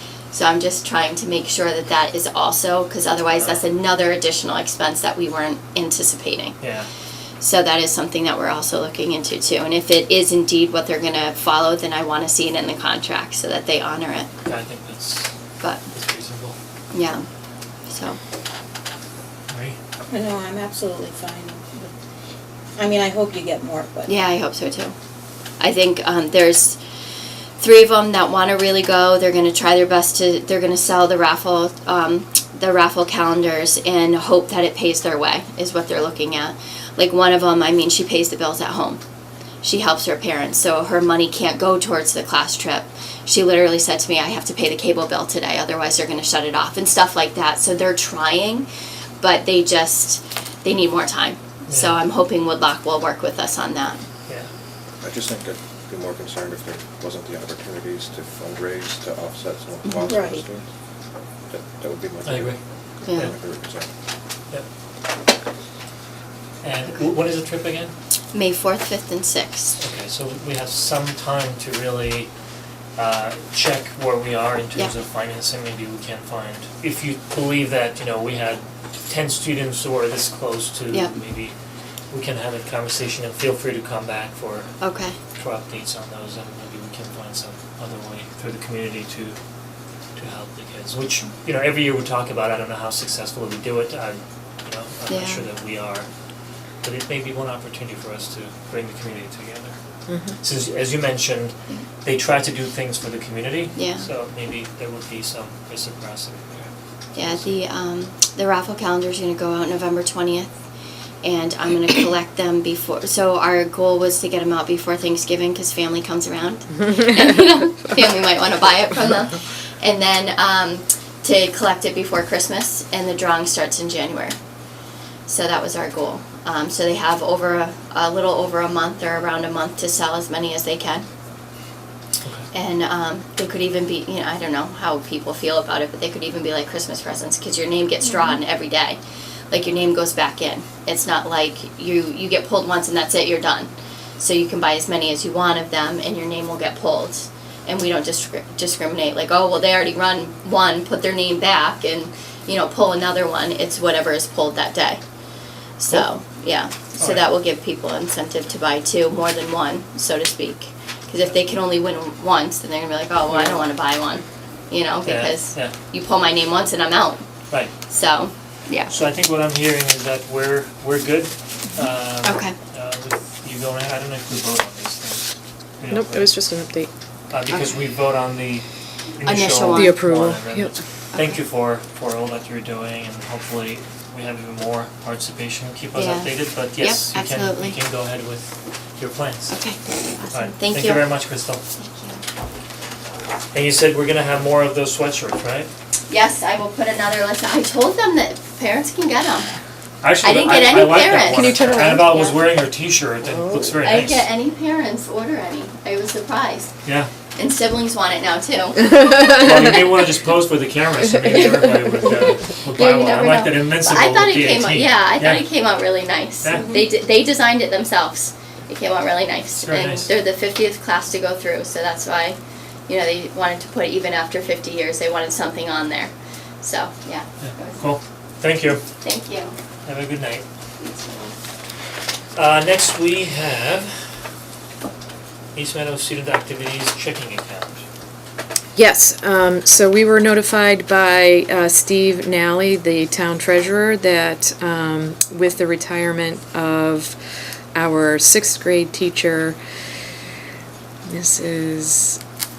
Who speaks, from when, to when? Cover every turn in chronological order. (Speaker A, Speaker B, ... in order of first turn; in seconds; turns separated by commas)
Speaker A: 0.3-6.6, Speaker B: 3.4-3.6, Speaker B: 6.6-6.9, Speaker A: 7.4-14.3, Speaker B: 14.4-15.3, Speaker A: 15.6-15.9, Speaker B: 15.9-16.6, Speaker A: 16.9-17.3, Speaker A: 17.9-18.2, Speaker B: 19.5-19.8, Speaker C: 20.1-21.9, Speaker C: 22.8-24.1, Speaker A: 24.1-24.9, Speaker A: 25.6-26.8, Speaker A: 27.6-39.0, Speaker A: 39.6-48.7, Speaker A: 49.2-54.0, Speaker B: 51.7-52.0, Speaker D: 55.0-60.7, Speaker C: 60.1-60.5, Speaker D: 61.5-63.9, Speaker B: 62.2-62.6, Speaker A: 63.0-63.3, Speaker B: 66.6-67.9, Speaker A: 68.3-69.8, Speaker B: 69.8-72.3, Speaker B: 73.0-81.5, Speaker B: 82.1-84.7, Speaker A: 84.8-85.2, Speaker B: 85.3-89.4, Speaker B: 90.2-96.1, Speaker A: 95.1-95.5, Speaker B: 96.8-99.8, Speaker E: 100.1-100.4, Speaker B: 100.4-107.6, Speaker A: 103.8-104.1, Speaker A: 107.2-110.5, Speaker A: 111.2-124.4, Speaker A: 125.3-131.1, Speaker A: 132.5-155.0, Speaker A: 155.8-167.2, Speaker B: 157.0-157.3, Speaker B: 163.3-163.7, Speaker B: 165.0-165.7, Speaker A: 167.9-168.9, Speaker B: 168.9-176.3, Speaker A: 172.2-172.6, Speaker E: 175.9-176.9, Speaker B: 177.3-189.6, Speaker A: 179.2-180.0, Speaker E: 179.7-180.8, Speaker A: 185.9-187.8, Speaker A: 189.5-191.1, Speaker B: 190.3-191.6, Speaker A: 191.8-192.2, Speaker B: 193.5-195.7, Speaker A: 196.1-199.5, Speaker B: 200.0-204.3, Speaker A: 200.2-202.4, Speaker E: 201.2-202.2, Speaker A: 203.8-206.7, Speaker B: 206.8-207.1, Speaker A: 207.3-208.9, Speaker B: 209.1-215.5, Speaker A: 212.7-227.8, Speaker B: 216.4-216.8, Speaker B: 219.6-220.1, Speaker B: 227.4-228.8, Speaker A: 229.0-229.6, Speaker B: 229.8-230.5, Speaker A: 230.8-231.3, Speaker B: 232.3-234.2, Speaker B: 235.5-237.8, Speaker E: 238.8-247.2, Speaker E: 247.7-249.6, Speaker E: 251.1-252.2